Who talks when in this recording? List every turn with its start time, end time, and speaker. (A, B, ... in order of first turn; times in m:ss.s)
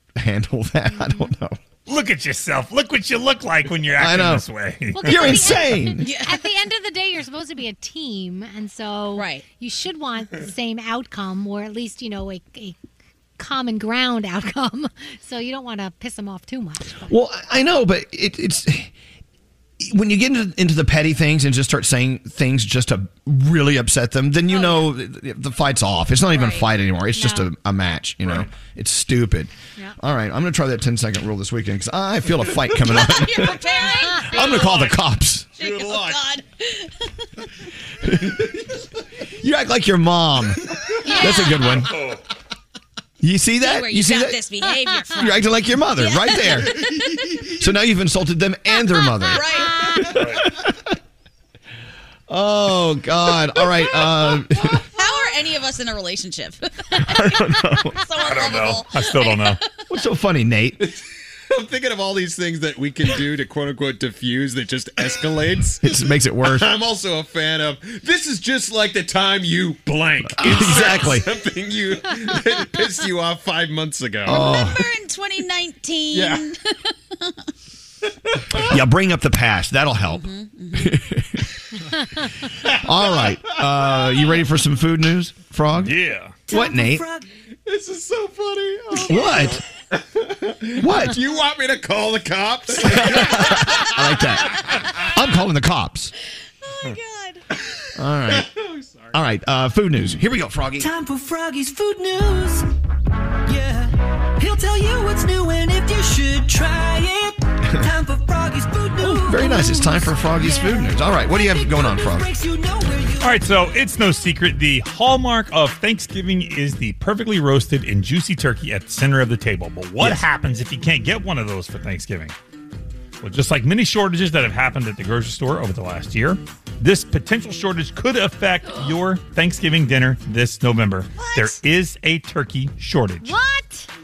0:00.2-0:01.6 A
0:01.0-0:01.3 B
0:01.9-0:05.3 C
0:04.0-0:04.4 A
0:05.0-0:12.7 B
0:05.0-0:06.1 A
0:06.0-0:06.4 D
0:09.2-0:09.4 D
0:13.4-0:17.1 B
0:17.1-0:18.9 A
0:19.8-0:35.5 A
0:24.5-0:24.9 D
0:26.3-0:26.7 D
0:27.2-0:27.5 B
0:32.8-0:35.0 D
0:35.6-0:37.0 D
0:35.6-0:36.2 E
0:38.0-0:38.5 A
0:39.4-0:42.0 A
0:41.0-0:41.7 D
0:41.8-0:42.2 E
0:43.2-0:44.4 A
0:43.6-0:47.4 D
0:45.2-0:46.8 A
0:47.6-0:50.7 A
0:49.3-0:50.1 D
0:49.5-0:50.0 B
0:52.3-0:54.8 A
0:55.0-0:59.6 D
0:57.0-0:58.0 A
0:58.3-0:59.6 C
0:58.4-0:58.8 E
0:59.9-1:00.8 A
1:01.5-1:14.5 E
1:05.8-1:06.7 A
1:10.2-1:11.3 A
1:14.2-1:14.9 A
1:14.3-1:17.3 D
1:16.1-1:16.4 E
1:18.7-1:21.4 A
1:20.1-1:21.0 D
1:22.8-1:26.0 A
1:25.8-1:26.3 C
1:26.5-1:27.3 F
1:26.5-1:27.1 A
1:27.7-1:34.0 E
1:29.0-1:29.6 A
1:30.8-1:31.2 A
1:32.8-1:34.6 A
1:35.1-1:36.1 A
1:36.7-1:37.4 D
1:38.0-1:38.5 A
1:38.3-1:39.1 E
1:39.1-1:40.9 A
1:40.8-1:42.7 F
1:43.5-1:53.4 F
1:49.0-1:52.3 A
1:53.2-2:02.3 C
2:03.2-2:13.4 C
2:11.2-2:11.6 B
2:13.2-2:13.9 B